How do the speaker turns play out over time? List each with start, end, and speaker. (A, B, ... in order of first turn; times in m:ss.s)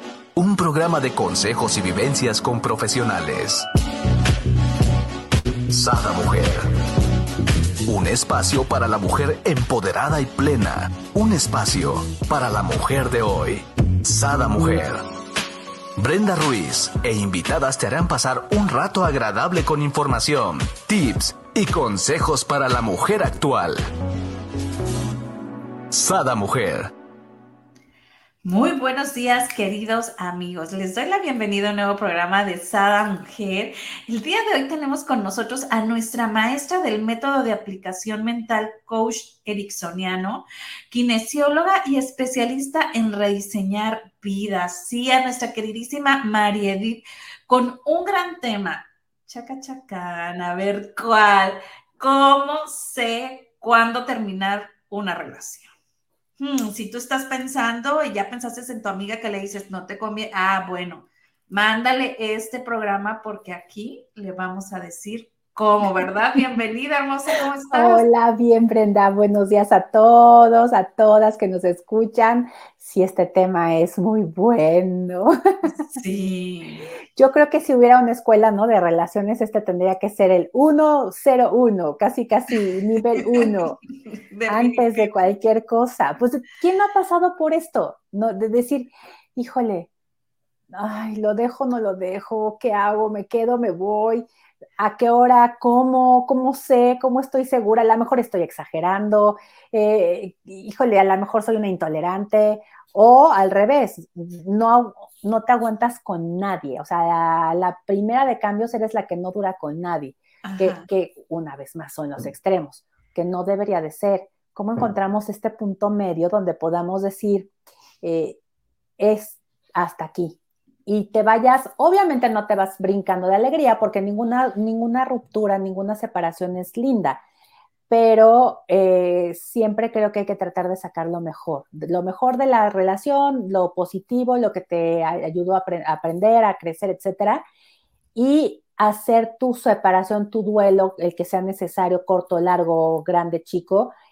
0:00.4-0:03.7 A
0:05.7-0:06.7 A
0:07.8-0:15.0 A
0:16.0-0:23.8 A
0:25.9-0:26.9 A
0:28.4-0:55.7 B
0:56.4-1:08.0 B
1:07.7-1:15.8 C
1:15.7-1:16.9 B
1:17.1-1:23.8 C
1:23.2-1:23.8 B
1:24.3-1:25.2 B
1:24.5-1:29.9 C
1:30.7-1:34.2 C
1:34.8-1:57.5 C
1:50.4-1:50.9 B
1:58.0-1:58.4 C
1:59.0-2:07.2 C
2:07.9-2:17.4 C
2:18.2-2:23.9 C